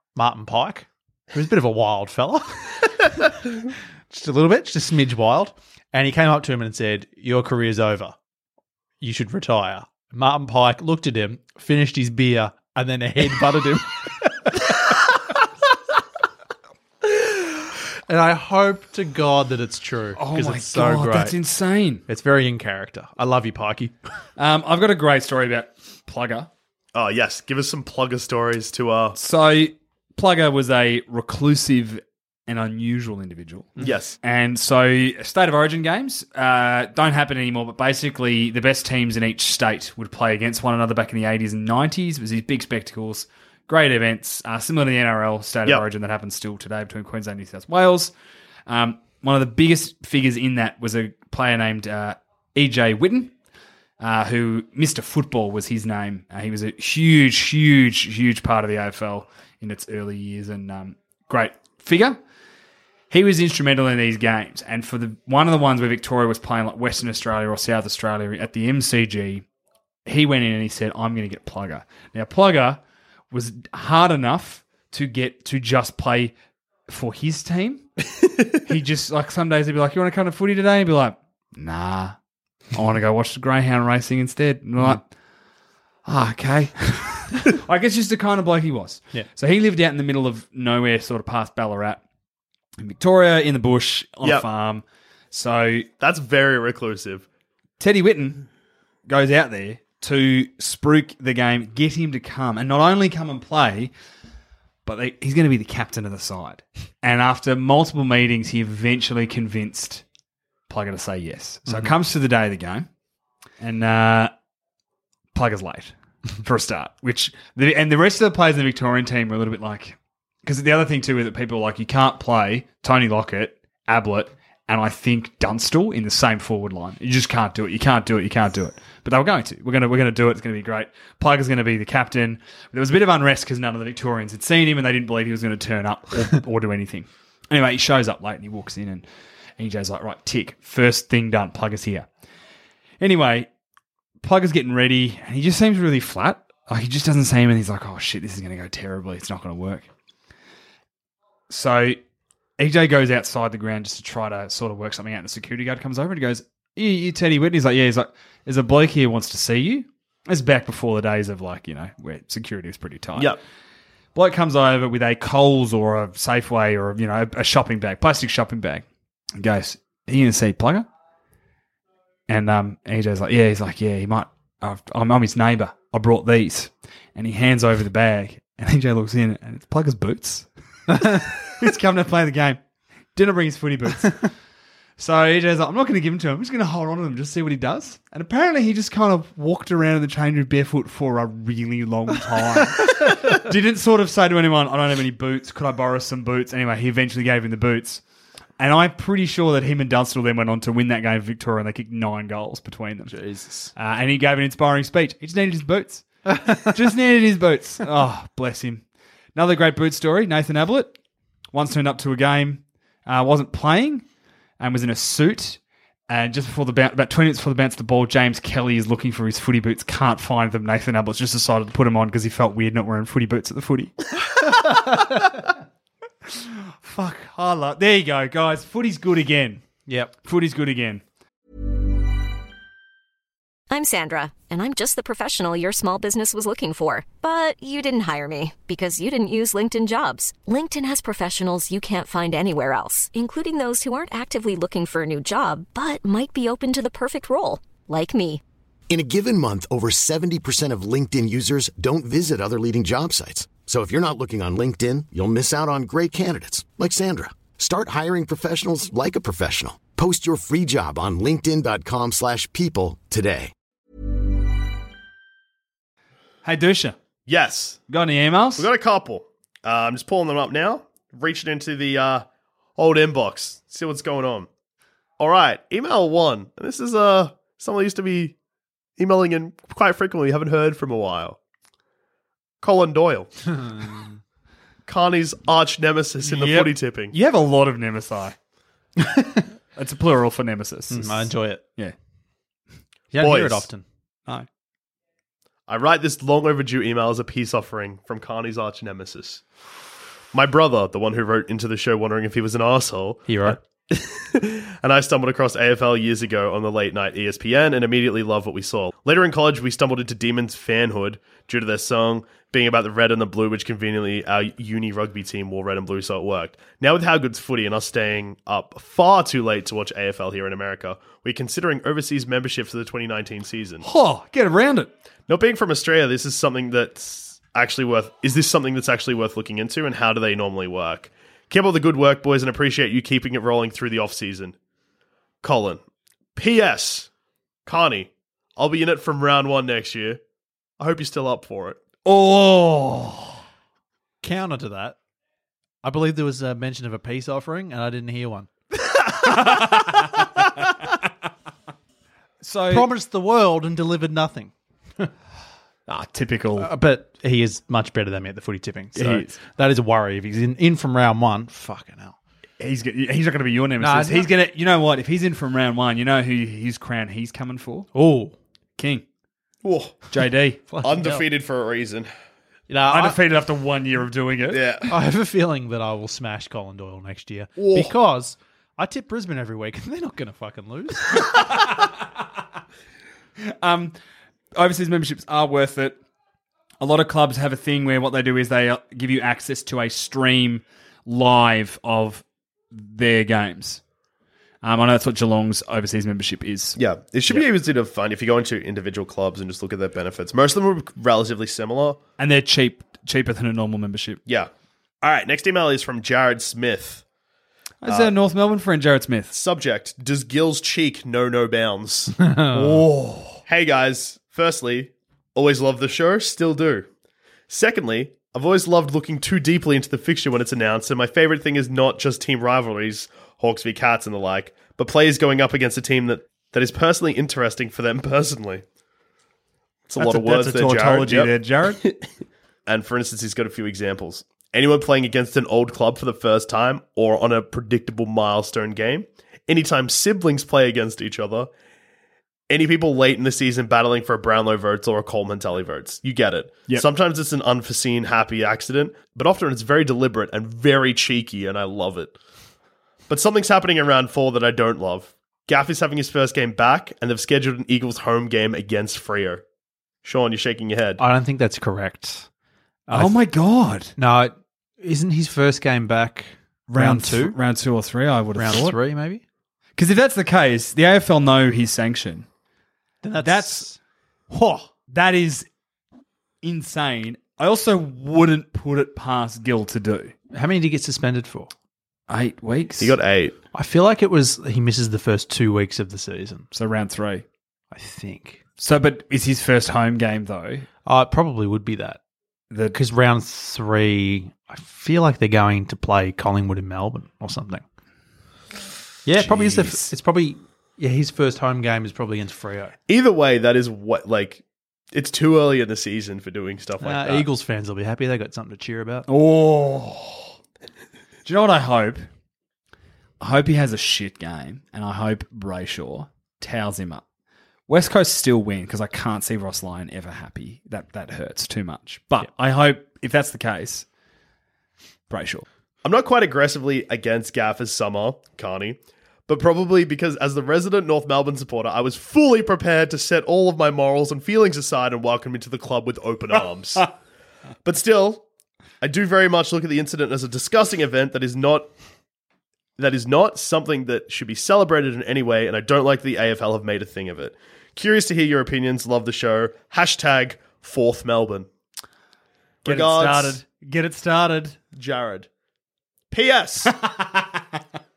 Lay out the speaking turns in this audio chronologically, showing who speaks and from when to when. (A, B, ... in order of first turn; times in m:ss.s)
0:00.1-0:03.6 A
0:04.1-0:08.1 A
0:09.0-0:15.2 A
0:17.0-0:21.4 A
0:20.2-0:22.0 B
0:22.1-0:23.9 A
0:24.4-0:26.5 B
0:26.9-0:29.2 C
0:29.2-0:48.1 B
0:33.8-0:34.2 C
0:48.7-0:53.3 B
0:54.0-1:02.2 B
1:03.1-1:09.4 B
1:10.0-1:16.3 B
1:16.9-1:17.9 B
1:18.6-1:22.2 B
1:22.7-1:25.0 B
1:26.0-1:32.0 B
1:32.8-1:35.9 B
1:36.0-1:37.2 C
1:37.8-1:38.4 B
1:39.1-1:43.9 B
1:44.8-1:50.0 B
1:50.7-1:52.9 B
1:53.6-1:54.3 B
1:55.3-2:19.0 B
2:19.6-2:22.1 B
2:23.0-2:23.5 B
2:24.2-2:29.9 B
2:31.5-2:32.0 B
2:32.6-2:43.3 B
2:44.1-2:48.8 B
2:49.4-2:50.8 B
2:52.3-3:00.5 B
3:01.0-3:02.6 B
3:03.1-3:04.2 B
3:05.0-3:18.0 B
3:18.6-3:23.2 B
3:23.1-3:23.7 A
3:23.8-3:28.8 B
3:29.3-3:31.0 B
3:31.5-3:34.0 B
3:34.6-3:44.9 B
3:46.3-3:49.6 B
3:49.9-3:50.1 A
3:50.2-3:51.0 B
3:53.7-4:08.4 D
4:08.9-4:23.5 E
4:26.4-4:27.0 B
4:27.3-4:27.8 C
4:27.9-4:28.7 B
4:28.6-4:32.2 C
4:32.8-4:34.5 C
4:35.2-4:38.3 C
4:39.0-4:41.4 C
4:42.6-4:43.5 C
4:44.8-4:47.1 C
4:46.2-4:48.3 B
4:49.0-4:49.5 A
4:49.8-4:51.9 B
4:50.9-4:51.6 A
4:53.1-4:53.8 A
4:53.2-4:53.7 C
4:55.7-4:59.4 C
5:00.3-5:23.8 C
5:03.3-5:03.6 A
5:23.8-5:24.9 B
5:25.3-5:34.5 C
5:35.4-5:35.8 C
5:36.4-5:37.1 C
5:37.6-5:40.2 C
5:40.8-5:41.8 C
5:42.0-5:43.4 B
5:44.2-5:45.0 A
5:45.8-5:48.5 A
5:49.2-5:50.0 A
5:49.3-5:50.0 B
5:52.4-5:52.9 B
5:52.7-5:55.1 A
5:55.9-5:56.7 B
5:56.6-6:02.2 A
5:58.9-5:59.4 B
6:02.6-6:07.9 B
6:03.8-6:04.3 A
6:07.9-6:08.4 A
6:08.8-6:09.0 B
6:09.6-6:10.0 C
6:10.1-6:10.6 B
6:10.7-6:11.2 A
6:10.8-6:12.1 C
6:12.7-6:13.2 A
6:12.9-6:14.6 B
6:14.5-6:14.9 C
6:14.9-6:21.6 A
6:17.6-6:17.9 C
6:23.4-6:24.0 B
6:24.6-6:26.0 B
6:26.8-6:33.8 B
6:34.6-6:36.8 B
6:36.8-6:42.0 C
6:42.2-6:44.2 B
6:45.0-6:47.0 C
6:47.8-6:49.3 B
6:47.8-6:48.1 C
6:49.3-6:52.1 C
6:52.2-6:52.8 A
6:52.5-6:53.4 B
6:53.4-6:56.9 C
6:57.5-7:08.6 C
7:09.9-7:12.0 C
7:10.0-7:11.8 B
7:12.7-7:21.5 C
7:22.5-7:32.1 C
7:33.1-7:39.4 C
7:40.0-7:41.0 C
7:41.0-7:42.3 A
7:42.9-7:43.2 A
7:42.9-7:43.9 B
7:44.0-7:47.4 A
7:46.7-7:48.8 B
7:48.4-7:49.2 A
7:49.8-7:52.2 B
7:53.0-7:53.8 A
7:53.2-7:53.7 B
7:54.3-7:54.7 A
7:54.9-7:55.5 B
7:56.4-8:00.1 B
8:00.3-8:01.5 A
8:02.1-8:03.0 B
8:02.8-8:03.3 C
8:03.5-8:06.5 A
8:06.5-8:07.2 B
8:07.7-8:08.4 A
8:08.6-8:10.6 B
8:10.8-8:12.0 A
8:12.5-8:12.8 B
8:12.7-8:17.6 A
8:19.0-8:22.7 A
8:19.2-8:19.8 B
8:22.9-8:27.2 C
8:26.8-8:29.0 A
8:29.1-8:30.3 B
8:31.2-8:32.0 B
8:33.2-8:37.0 B
8:37.7-8:43.8 B
8:45.1-8:45.4 B
8:45.8-8:56.9 C
8:57.6-8:58.2 C
8:58.8-9:01.7 C
9:02.8-9:11.5 C
9:12.6-9:13.4 C
9:12.6-9:14.6 B
9:14.7-9:15.3 C
9:16.1-9:16.8 C
9:16.8-9:17.4 B